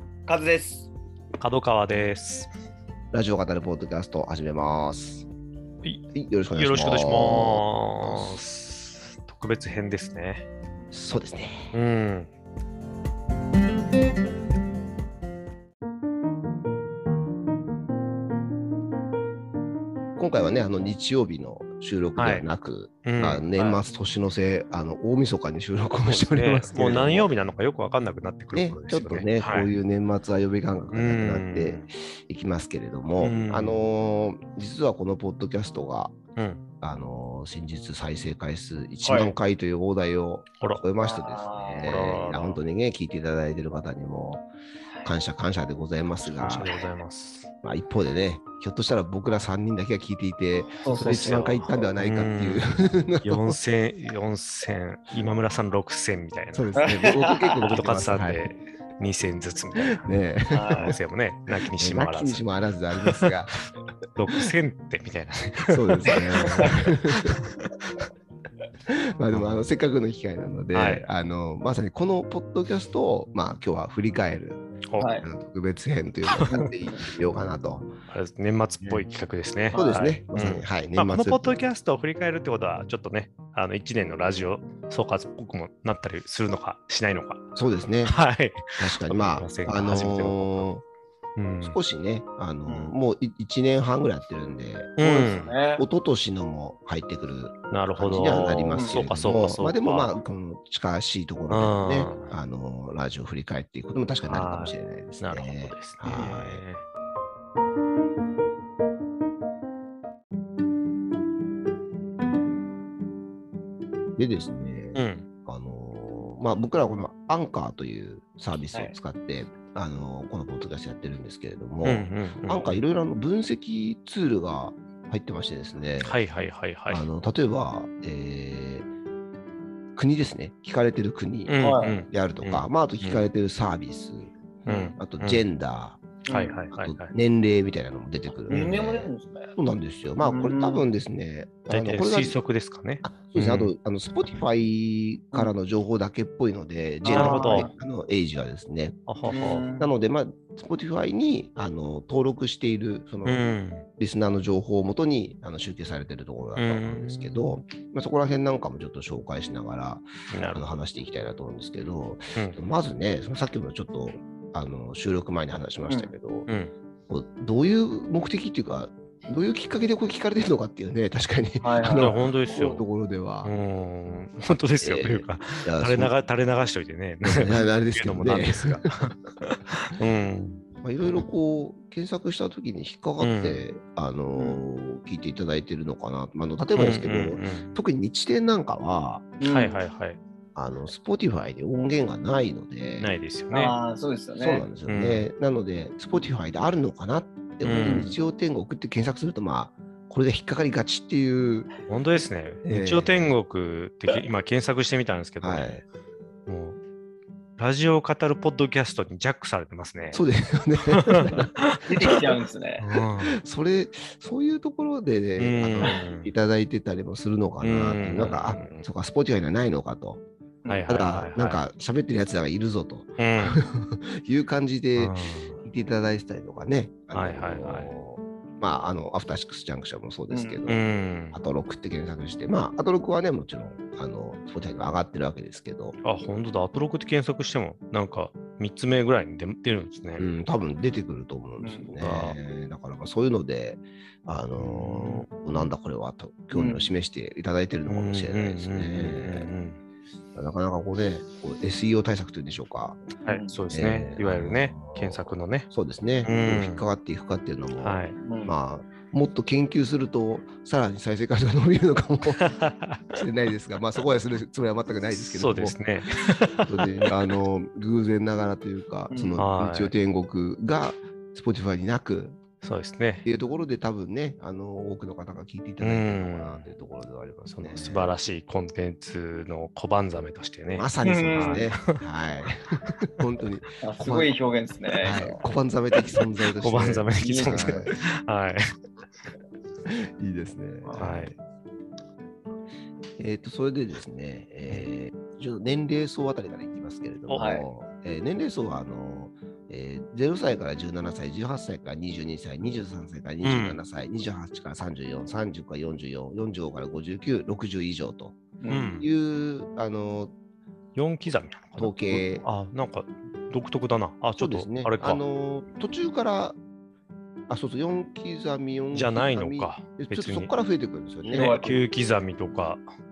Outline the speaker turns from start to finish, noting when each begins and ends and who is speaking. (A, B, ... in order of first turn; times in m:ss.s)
0:00.3-0:00.9 A
0:01.4-0:02.5 B
0:03.1-0:05.3 C
0:06.1-0:08.4 C
0:06.6-0:10.4 B
0:10.9-0:11.7 C
0:11.7-0:12.3 B
0:20.2-0:27.3 C
0:22.2-0:22.4 B
0:23.0-0:23.7 B
0:26.0-0:29.8 B
0:28.5-0:36.2 C
0:30.9-0:31.9 B
0:33.2-0:33.8 B
0:36.4-0:36.6 B
0:36.8-0:44.5 C
0:39.0-0:39.3 A
0:41.0-0:41.9 A
0:41.8-0:42.6 B
0:45.0-0:46.7 C
0:46.3-0:46.9 A
0:46.4-0:47.5 B
0:47.6-0:53.6 C
0:50.8-0:51.8 A
0:50.9-0:52.7 B
0:53.2-1:00.1 B
0:56.5-0:58.4 C
0:56.8-0:57.6 A
0:59.9-1:01.0 C
1:00.5-1:01.0 A
1:00.7-1:02.5 B
1:01.6-1:03.6 C
1:03.0-1:03.3 B
1:04.1-1:07.5 B
1:05.7-1:07.4 C
1:08.9-1:14.6 C
1:10.7-1:11.1 B
1:15.0-1:15.2 A
1:15.2-1:17.9 C
1:16.3-1:16.5 B
1:16.5-1:17.0 A
1:18.1-1:27.4 B
1:19.7-1:20.1 A
1:19.7-1:21.6 C
1:27.5-1:28.2 C
1:28.0-1:30.7 B
1:28.8-1:30.8 C
1:31.4-1:31.8 B
1:31.6-1:46.6 C
1:32.6-1:32.9 A
1:35.0-1:35.5 B
1:35.0-1:35.8 A
1:37.7-1:40.2 B
1:38.7-1:39.0 A
1:41.5-1:42.3 B
1:44.3-1:46.8 B
1:54.2-2:06.2 C
1:54.9-1:55.2 B
2:01.8-2:02.8 B
2:06.0-2:07.0 B
2:06.9-2:08.9 C
2:09.9-2:14.4 C
2:11.5-2:13.2 B
2:11.6-2:12.0 A
2:14.6-2:15.4 B
2:15.0-2:16.0 C
2:16.3-2:16.6 A
2:16.3-2:17.1 B
2:16.7-2:22.4 C
2:18.5-2:19.5 A
2:20.2-2:20.8 A
2:21.7-2:23.7 B
2:23.0-2:29.0 C
2:27.0-2:27.7 A
2:27.1-2:27.7 B
2:29.1-2:29.7 B
2:29.3-2:29.9 A
2:29.8-2:33.4 C
2:33.2-2:33.8 B
2:34.0-2:46.5 C
2:36.6-2:37.6 B
2:40.3-2:40.6 B
2:46.5-2:46.7 B
2:47.1-2:53.6 C
2:51.6-2:52.8 A
2:51.9-2:52.8 B
2:53.4-3:00.6 B
2:54.8-2:56.1 C
2:57.2-2:58.9 C
3:00.8-3:09.3 C
3:03.2-3:03.6 B
3:04.4-3:04.6 A
3:06.7-3:07.7 B
3:09.4-3:09.8 A
3:09.4-3:10.2 B
3:10.5-3:13.1 C
3:13.0-3:13.8 B
3:13.5-3:14.6 A
3:14.4-3:21.7 C
3:14.9-3:15.2 B
3:17.6-3:18.1 B
3:17.8-3:18.2 A
3:21.9-3:25.8 B
3:22.6-3:23.3 C
3:25.4-3:25.8 C
3:26.5-3:26.8 B
3:27.6-3:30.2 B
3:30.1-3:32.3 C
3:31.0-3:31.7 B
3:31.8-3:32.9 A
3:32.8-3:33.3 B
3:33.2-3:40.2 C
3:35.4-3:36.3 B
3:37.6-3:38.8 B
3:40.6-3:41.6 B
3:40.9-3:56.0 C
3:43.2-3:43.6 B
3:45.0-3:45.6 B
3:47.1-3:47.9 B
3:50.3-3:50.6 A
3:50.7-3:51.4 B
3:56.0-4:00.3 B
4:00.2-4:09.5 C
4:01.6-4:01.9 A
4:02.0-4:02.4 B
4:04.6-4:05.3 B
4:06.5-4:06.8 A
4:07.9-4:09.8 B
4:10.3-4:13.0 C
4:13.2-4:15.7 B
4:13.2-4:13.5 A
4:13.7-4:22.5 C
4:16.2-4:16.8 B
4:17.8-4:18.2 B
4:18.2-4:18.5 A
4:22.4-4:23.2 B
4:23.1-4:25.8 C
4:25.1-4:27.1 B
4:26.5-4:32.4 C
4:29.1-4:29.4 A
4:29.4-4:29.9 B
4:32.6-4:33.2 B
4:33.2-4:38.2 C
4:35.8-4:36.7 B
4:37.6-4:41.7 B
4:40.8-4:44.3 C
4:41.0-4:41.6 A
4:43.8-4:45.4 A
4:45.0-4:47.9 C
4:46.6-4:48.7 B
4:47.2-4:47.8 A
4:49.9-4:51.3 C
4:50.8-4:51.2 A
4:51.0-4:51.3 B
4:53.2-5:10.3 C
4:57.3-4:57.6 A
5:03.4-5:03.8 B
5:08.6-5:08.9 A
5:08.7-5:09.1 B
5:10.9-5:15.2 B
5:11.8-5:12.4 C
5:14.4-5:16.6 C
5:17.5-5:21.8 C
5:18.9-5:20.5 B
5:21.2-5:21.8 A
5:21.3-5:22.8 B